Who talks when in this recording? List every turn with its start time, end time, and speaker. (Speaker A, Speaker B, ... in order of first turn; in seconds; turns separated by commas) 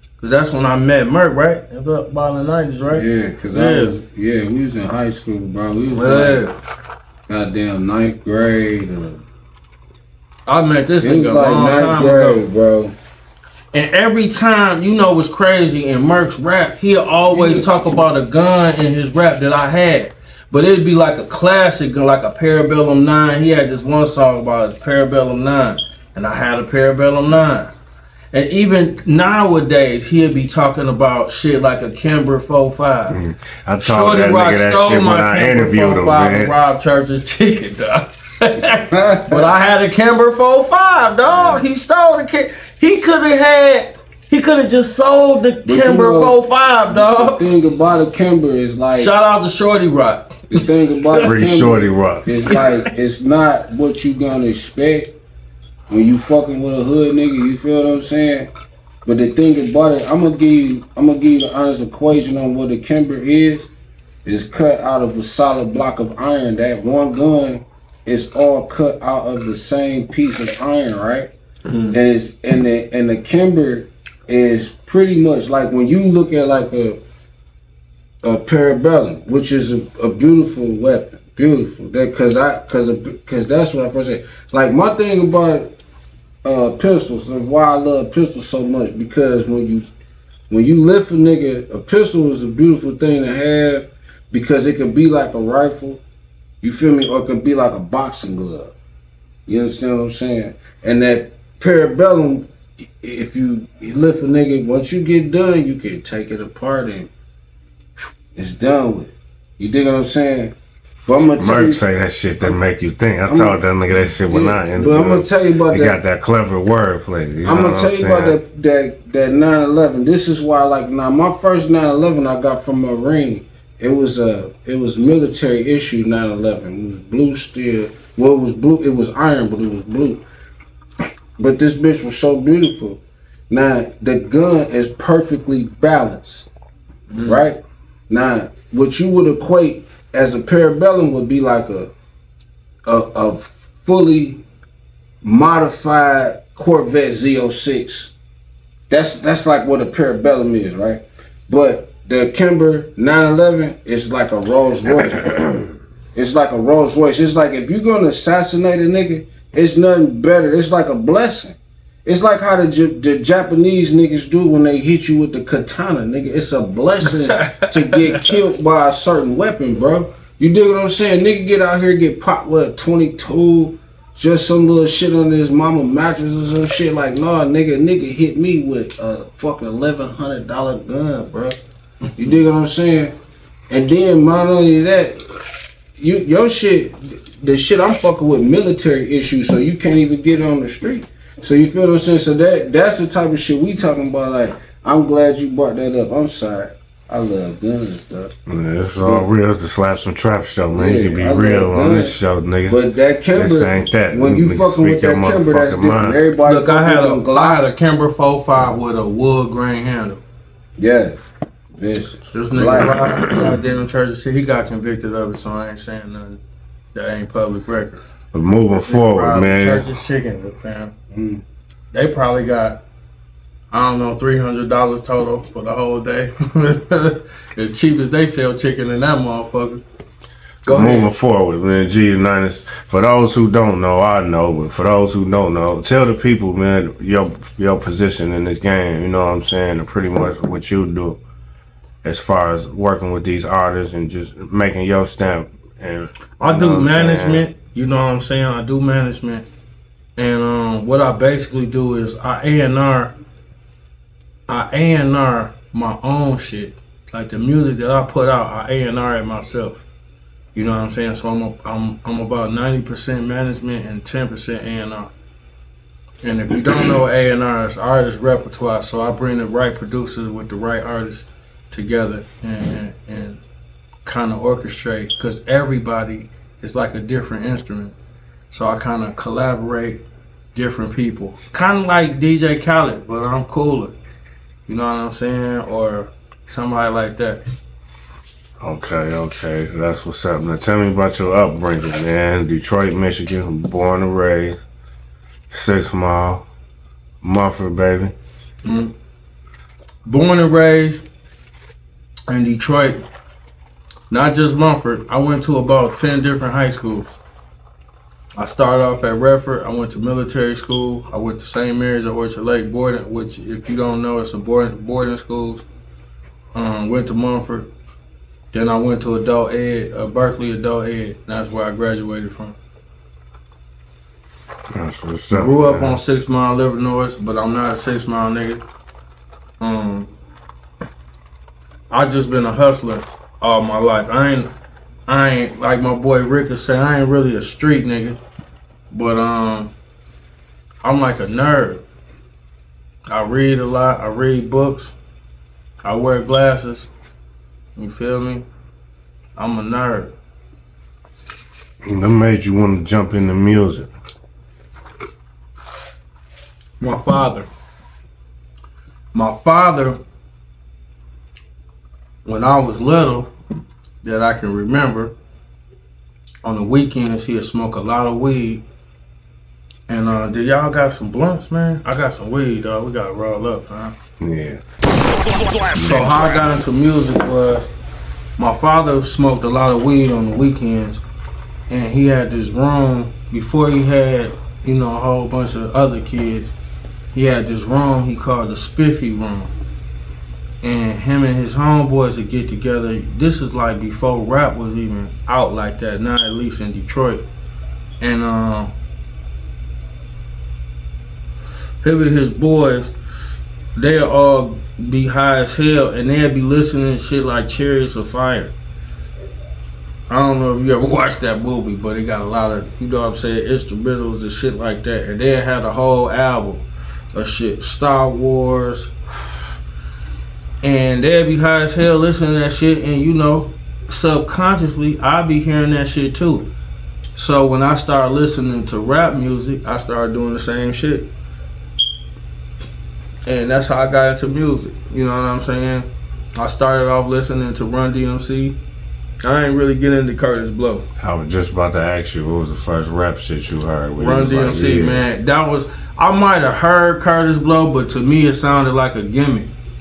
Speaker A: 0.2-4.0, Speaker B: 2.9-6.4, Speaker A: 5.9-6.6, Speaker B: 7.3-9.2, Speaker A: 10.5-12.4, Speaker B: 11.0-12.9, Speaker A: 13.7-27.7, Speaker B: 17.3-17.9, Speaker A: 28.3-33.2, Speaker C: 33.1-36.5, Speaker A: 33.8-47.5, Speaker B: 38.5-39.5, Speaker B: 41.3-41.6, Speaker B: 45.6-46.4, Speaker B: 46.9-49.1, Speaker A: 48.9-50.6, Speaker B: 50.5-55.1, Speaker C: 51.2-52.5, Speaker A: 52.5-52.7, Speaker B: 55.9-58.5, Speaker B: 59.1-63.7, Speaker B: 64.2-71.3, Speaker A: 71.7-72.0, Speaker B: 71.9-77.0, Speaker B: 78.2-85.8, Speaker B: 86.4-89.9, Speaker B: 90.5-96.0, Speaker B: 96.6-98.7, Speaker B: 99.5-107.1, Speaker B: 108.3-110.5, Speaker B: 111.1-111.8, Speaker C: 111.4-118.4, Speaker B: 113.3-113.6, Speaker B: 114.2-116.0, Speaker B: 117.4-130.2, Speaker B: 131.4-136.5, Speaker A: 137.1-137.4, Speaker B: 137.1-141.9, Speaker B: 142.9-144.4, Speaker B: 145.2-148.1, Speaker B: 148.9-181.6, Speaker A: 167.3-168.0, Speaker B: 182.2-183.2, Speaker B: 183.7-185.2, Speaker B: 186.0-198.4, Speaker C: 198.5-202.8, Speaker B: 199.0-199.3, Speaker B: 200.8-207.8, Speaker C: 203.3-206.2, Speaker A: 206.4-210.2, Speaker B: 210.8-213.5, Speaker A: 212.3-216.4, Speaker A: 216.9-218.0, Speaker C: 218.3-219.9, Speaker A: 218.7-220.9, Speaker B: 221.1-221.4, Speaker A: 221.9-222.8, Speaker A: 223.7-229.8, Speaker A: 230.7-231.1, Speaker C: 230.7-241.2, Speaker C: 242.0-247.5, Speaker A: 246.4-249.5, Speaker A: 250.2-253.2, Speaker A: 254.5-259.9, Speaker A: 260.6-265.1, Speaker A: 266.2-273.4, Speaker A: 274.1-277.9, Speaker A: 278.5-280.0, Speaker A: 280.5-283.9, Speaker A: 284.7-287.4, Speaker C: 288.6-294.6, Speaker C: 295.5-296.4, Speaker C: 297.2-298.1, Speaker A: 298.6-298.9, Speaker A: 300.1-301.1, Speaker A: 302.3-303.0, Speaker A: 304.1-307.2, Speaker A: 308.4-315.6, Speaker A: 316.6-317.7, Speaker A: 318.5-322.6, Speaker C: 324.7-326.0, Speaker A: 325.3-328.6, Speaker A: 329.6-330.1, Speaker A: 331.9-334.5, Speaker A: 335.1-338.2, Speaker A: 338.9-339.7, Speaker A: 340.8-341.8, Speaker A: 343.1-344.9, Speaker A: 345.8-346.9, Speaker A: 347.8-348.5, Speaker A: 349.4-350.1, Speaker C: 351.9-353.9, Speaker A: 356.8-357.5, Speaker A: 359.1-360.0, Speaker A: 362.2-363.3, Speaker A: 364.0-365.1, Speaker A: 366.4-368.6, Speaker A: 369.9-373.9, Speaker C: 374.2-374.6, Speaker A: 375.7-377.7, Speaker A: 378.4-381.0, Speaker A: 381.7-386.5, Speaker A: 387.1-389.5, Speaker A: 390.6-397.2, Speaker A: 398.0-398.7, Speaker A: 401.8-402.9, Speaker A: 403.8-408.5, Speaker A: 410.1-418.9, Speaker A: 420.6-426.5, Speaker A: 427.2-431.1, Speaker A: 433.3-438.6, Speaker A: 439.2-440.9, Speaker C: 441.0-445.0, Speaker A: 444.0-449.5